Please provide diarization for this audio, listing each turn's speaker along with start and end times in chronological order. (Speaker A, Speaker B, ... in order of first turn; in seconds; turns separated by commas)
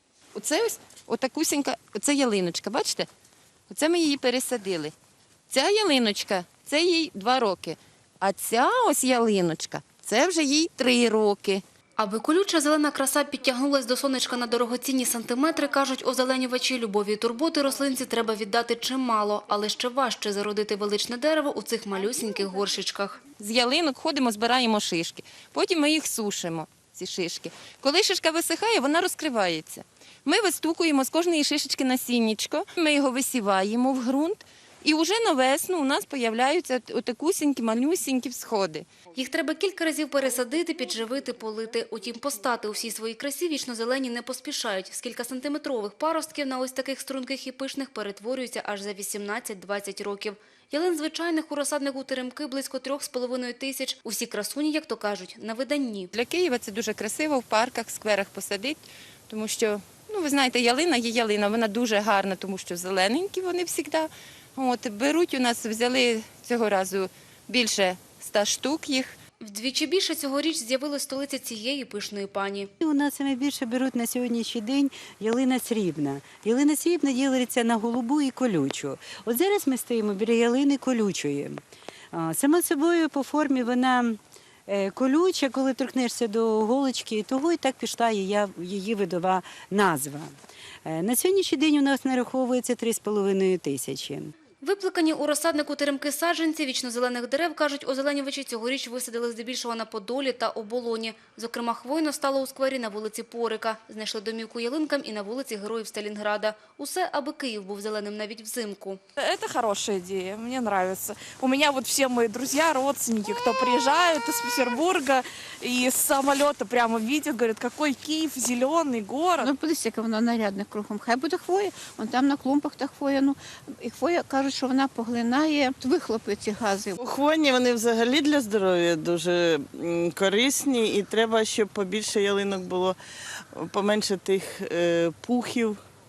Speaker A: 0.3-3.1, Speaker A: 3.7-4.9, Speaker A: 5.5-11.6, Speaker B: 12.0-23.2, Speaker A: 23.4-38.9, Speaker B: 39.2-56.1, Speaker A: 56.1-69.1, Speaker B: 69.5-72.7, Speaker C: 72.8-81.6, Speaker C: 82.1-90.3, Speaker C: 90.8-94.3, Speaker B: 94.6-109.0, Speaker D: 109.2-119.4, Speaker E: 119.4-127.0, Speaker F: 127.0-133.0, Speaker F: 133.6-135.8